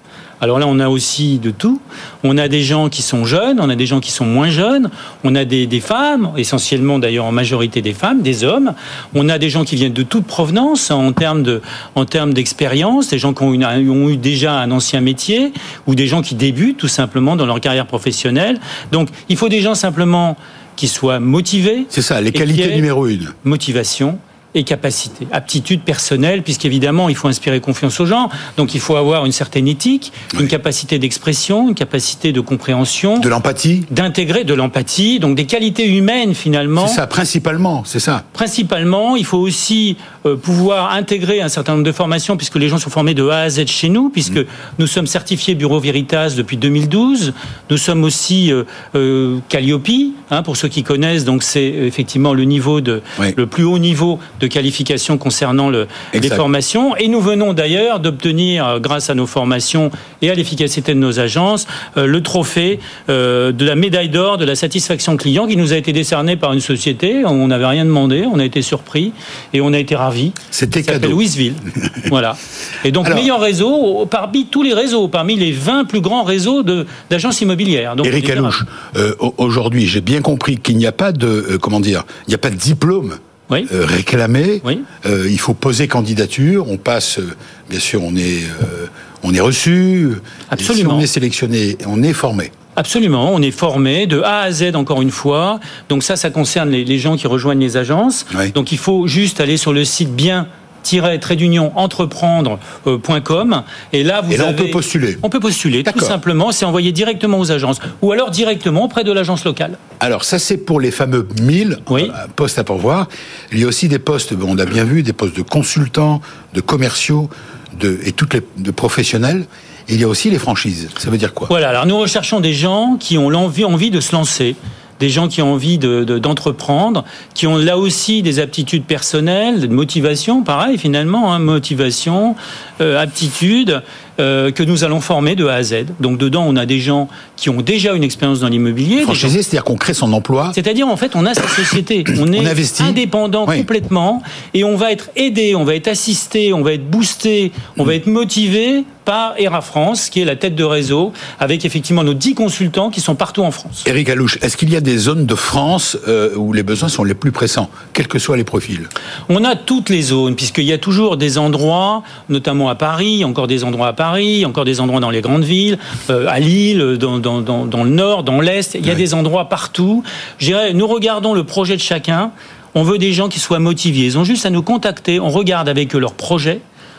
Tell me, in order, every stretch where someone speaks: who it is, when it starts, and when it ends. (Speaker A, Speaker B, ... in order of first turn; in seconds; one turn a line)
Speaker A: 0.4-22.9
Speaker B: 21.9-23.4
Speaker A: 23.4-33.3
Speaker B: 33.2-33.9
Speaker A: 33.9-37.0
Speaker B: 36.8-38.2
Speaker A: 38.4-78.6
Speaker B: 56.1-56.4
Speaker B: 70.5-71.2
Speaker B: 71.8-72.1
Speaker B: 73.0-73.3
Speaker B: 78.0-92.5
Speaker A: 90.5-91.1
Speaker A: 92.8-109.8
Speaker B: 104.3-105.2
Speaker B: 105.8-106.2
Speaker B: 110.0-121.5
Speaker A: 111.9-112.2
Speaker A: 121.5-139.4
Speaker B: 139.0-140.6
Speaker A: 140.5-153.9
Speaker B: 142.2-143.7
Speaker B: 153.8-158.9
Speaker A: 159.3-176.6